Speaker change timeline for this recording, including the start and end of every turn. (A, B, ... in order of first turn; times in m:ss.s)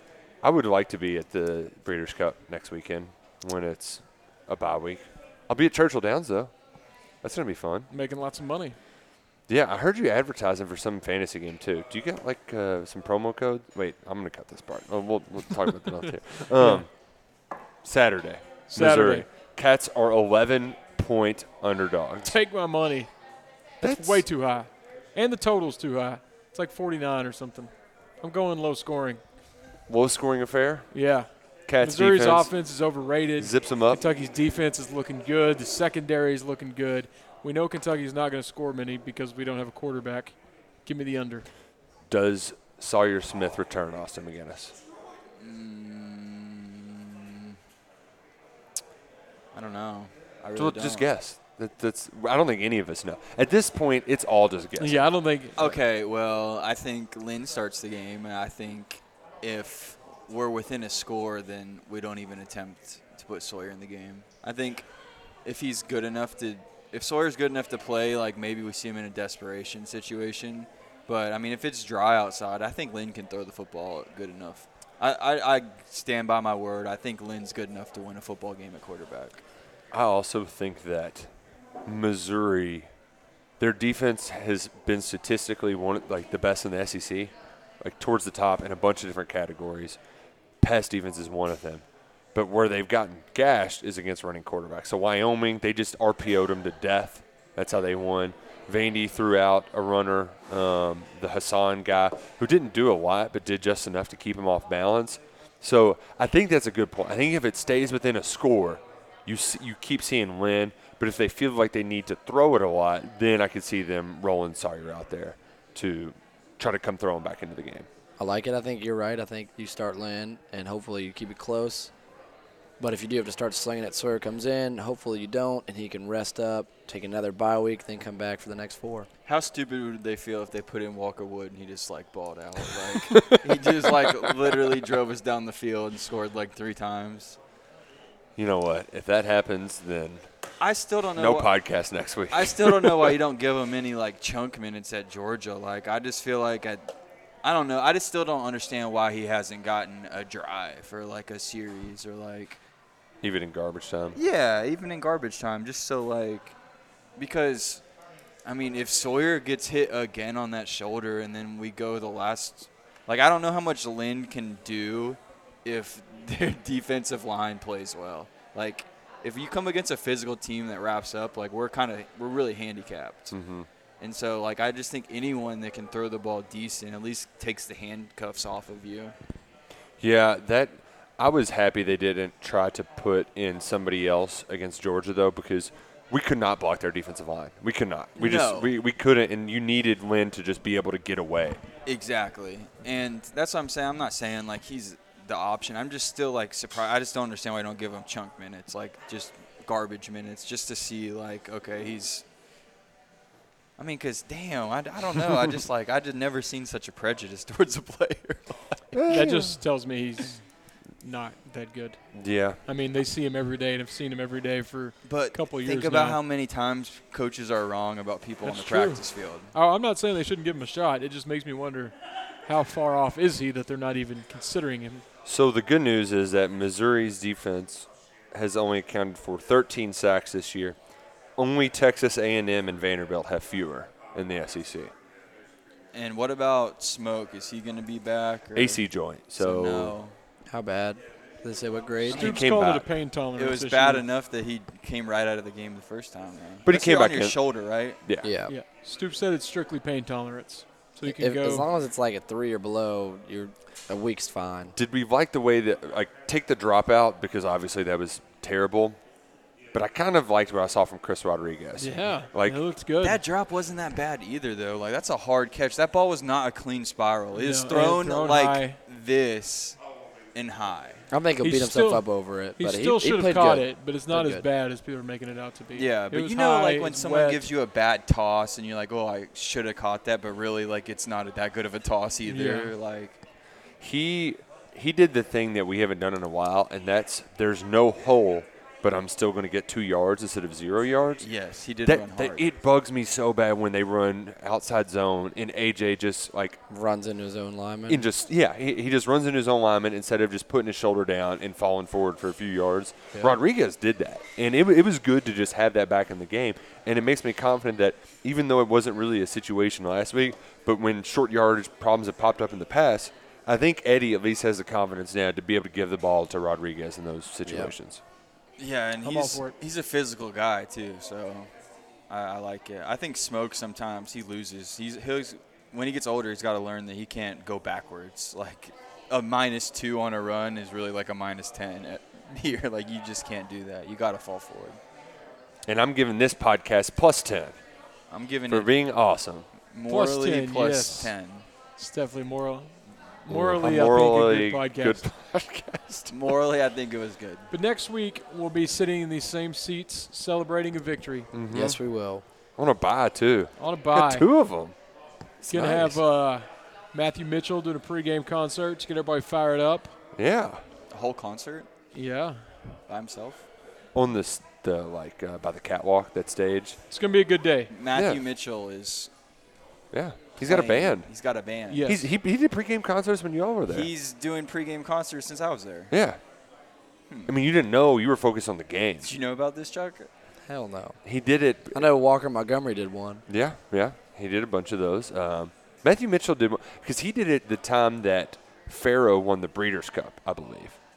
0:00.4-0:06.5 A
0:07.2-0:07.9 A
0:07.9-0:08.8 B
0:09.5-0:16.9 A
0:16.6-0:16.8 B
0:17.8-0:22.3 A
0:18.7-0:19.3 B
0:22.2-0:23.1 B
0:23.8-0:29.2 B
0:23.8-0:24.2 A
0:29.9-0:31.0 A
0:30.9-0:41.5 B
0:31.7-0:32.5 A
0:33.4-0:34.0 A
0:42.1-0:44.8 A
0:45.4-0:47.5 C
0:49.5-0:51.1 C
0:50.6-0:55.1 A
0:54.8-0:55.8 B
0:55.6-1:04.9 C
1:05.4-1:19.4 C
1:19.9-1:21.3 A
1:21.9-1:22.9 A
1:23.6-1:30.0 A
1:30.6-1:57.9 A
1:58.2-2:01.9 D
2:02.8-2:09.1 D
2:09.3-2:17.4 C
2:13.2-2:14.1 A
2:18.4-2:20.2 A
2:20.6-2:21.5 C
2:21.2-2:23.2 A
2:22.3-2:32.6 C
2:33.2-2:34.2 A
2:34.2-2:36.6 C
2:37.2-2:37.8 C
2:38.4-2:53.4 C
2:53.3-2:53.7 A
2:54.0-2:59.2 C
3:00.0-3:11.6 A
3:08.2-3:08.7 C
3:11.9-3:22.2 C
3:23.8-3:28.6 C
3:28.9-3:29.6 A
3:29.1-3:30.4 B
3:31.0-3:32.0 B
3:32.1-3:32.6 A
3:32.6-3:36.2 B
3:35.0-3:39.5 C
3:38.4-3:39.0 B
3:39.5-3:41.9 B
3:42.5-3:45.0 B
3:45.3-3:50.8 A
3:51.4-3:54.9 A
3:55.9-4:00.1 C
3:58.6-4:00.0 A
4:00.5-4:02.4 D
4:02.1-4:04.0 B
4:02.1-4:02.4 C
4:02.2-4:02.9 A
4:03.4-4:08.0 C
4:06.6-4:07.4 A
4:08.0-4:08.3 A
4:08.2-4:08.5 D
4:08.5-4:11.7 B
4:11.0-4:14.8 D
4:14.8-4:19.0 A
4:19.7-4:22.6 A
4:21.8-4:23.2 B
4:23.0-4:29.8 C
4:27.4-4:28.8 B
4:30.3-4:31.0 C
4:31.1-4:34.5 D
4:31.4-4:37.5 B
4:35.8-4:43.2 C
4:42.3-4:42.7 B
4:43.8-4:51.3 A
4:51.2-4:52.5 C
4:51.8-4:56.6 A
4:56.7-4:58.1 D
4:57.9-5:18.0 A
5:17.4-5:17.7 D
5:18.6-5:21.5 C
5:19.0-5:19.6 B
5:22.1-5:34.8 C
5:35.7-5:37.6 A
5:38.1-5:38.7 C
5:38.5-5:39.5 A
5:39.7-5:41.5 C
5:39.9-5:41.1 B
5:41.8-5:45.0 B
5:43.3-5:46.1 A
5:46.1-5:47.5 C
5:47.5-5:51.3 B
5:51.3-5:51.8 A
5:51.5-5:52.2 D
5:52.6-5:54.8 A
5:53.6-5:54.3 B
5:55.4-5:56.0 A
5:55.5-6:00.0 B
6:00.2-6:00.6 A
6:00.9-6:01.7 C
6:01.9-6:02.6 B
6:02.9-6:03.4 C
6:04.0-6:06.8 A
6:06.9-6:07.7 B
6:07.7-6:09.1 C
6:07.9-6:08.2 A
6:09.9-6:11.1 A
6:10.4-6:11.9 C
6:11.7-6:12.1 B
6:11.8-6:13.9 A
6:13.7-6:15.9 C
6:15.9-6:16.2 A
6:17.3-6:19.1 A
6:19.0-6:20.1 C
6:20.4-6:21.0 D
6:21.0-6:21.9 A
6:21.7-6:23.2 D
6:23.3-6:30.8 A